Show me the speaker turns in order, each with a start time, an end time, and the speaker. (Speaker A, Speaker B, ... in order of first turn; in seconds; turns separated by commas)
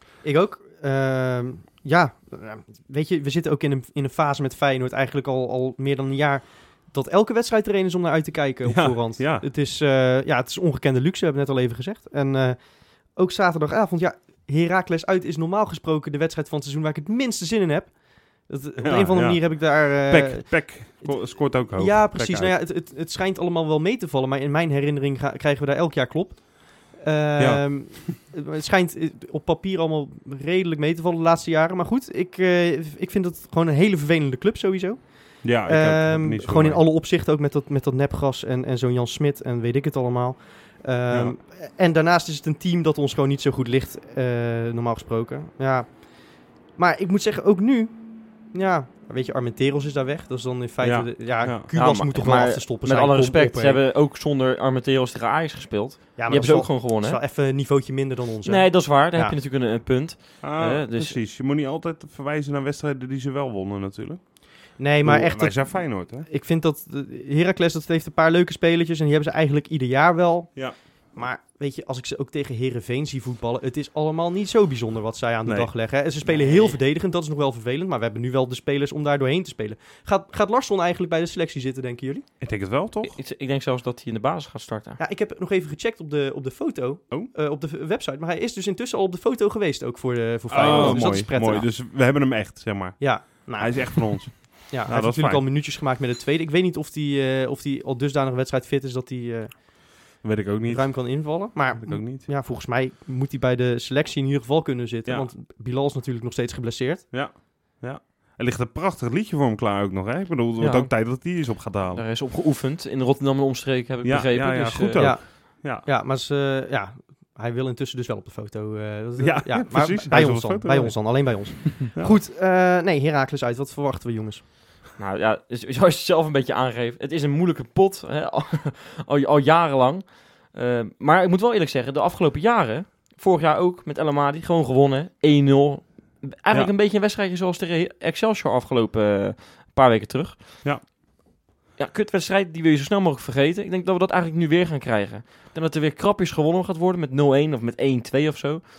Speaker A: 0.2-53.8, Speaker B: 8.7-9.5, Speaker B: 18.8-22.6, Speaker B: 27.4-28.1, Speaker B: 35.4-36.8, Speaker B: 41.1-41.4, Speaker B: 50.8-51.7, Speaker C: 51.7-57.2, Speaker A: 56.2-59.4, Speaker C: 58.5-61.2, Speaker B: 60.4-66.3, Speaker A: 64.8-82.3, Speaker B: 70.5-70.9, Speaker C: 76.2-76.8, Speaker B: 82.4-83.2, Speaker C: 83.0-85.0, Speaker A: 85.0-91.7, Speaker B: 90.5-95.5, Speaker C: 90.6-91.0, Speaker A: 93.0-100.2, Speaker B: 100.2-102.3, Speaker A: 100.7-107.1, Speaker B: 105.0-105.3, Speaker B: 107.1-112.0, Speaker C: 110.6-111.2, Speaker C: 111.9-115.0, Speaker B: 114.0-115.9, Speaker A: 115.0-124.4, Speaker B: 119.2-122.2, Speaker C: 125.0-140.9, Speaker C: 141.8-148.6